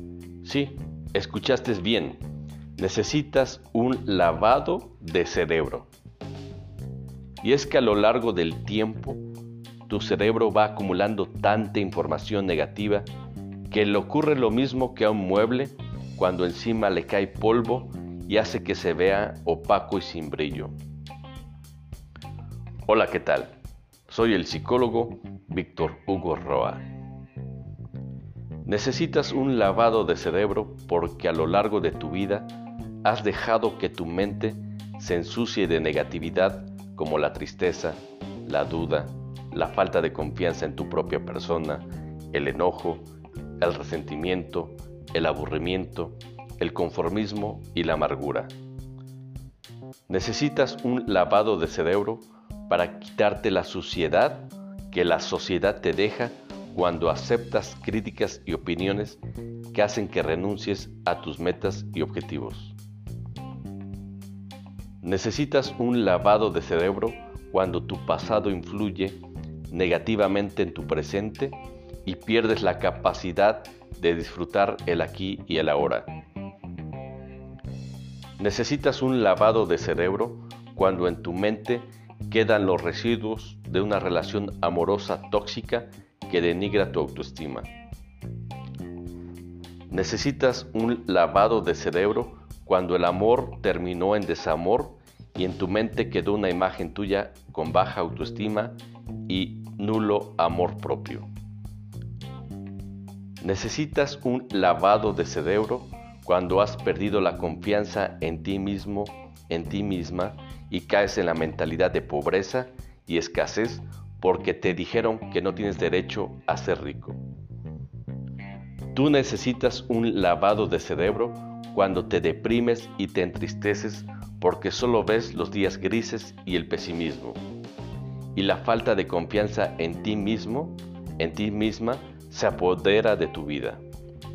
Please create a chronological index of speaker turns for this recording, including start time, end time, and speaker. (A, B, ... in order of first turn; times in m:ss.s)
0:00.4-0:02.2 A
0:02.8-0:05.9 A
0:07.4-0:09.2 A
0:09.9-0:13.1 A
0:13.7-0:20.7 A
0:22.9-0:23.5 A
0:24.1-0:26.9 A
0:28.6-0:32.5 A
0:33.0-0:43.1 A
0:43.6-0:48.5 A
0:50.1-0:59.2 A
0:59.7-1:02.8 A
1:05.0-1:09.2 A
1:09.7-1:16.1 A
1:18.4-1:27.7 A
1:29.9-1:41.3 A
1:43.4-1:57.2 A
1:58.9-2:07.4 A
2:08.4-2:13.8 A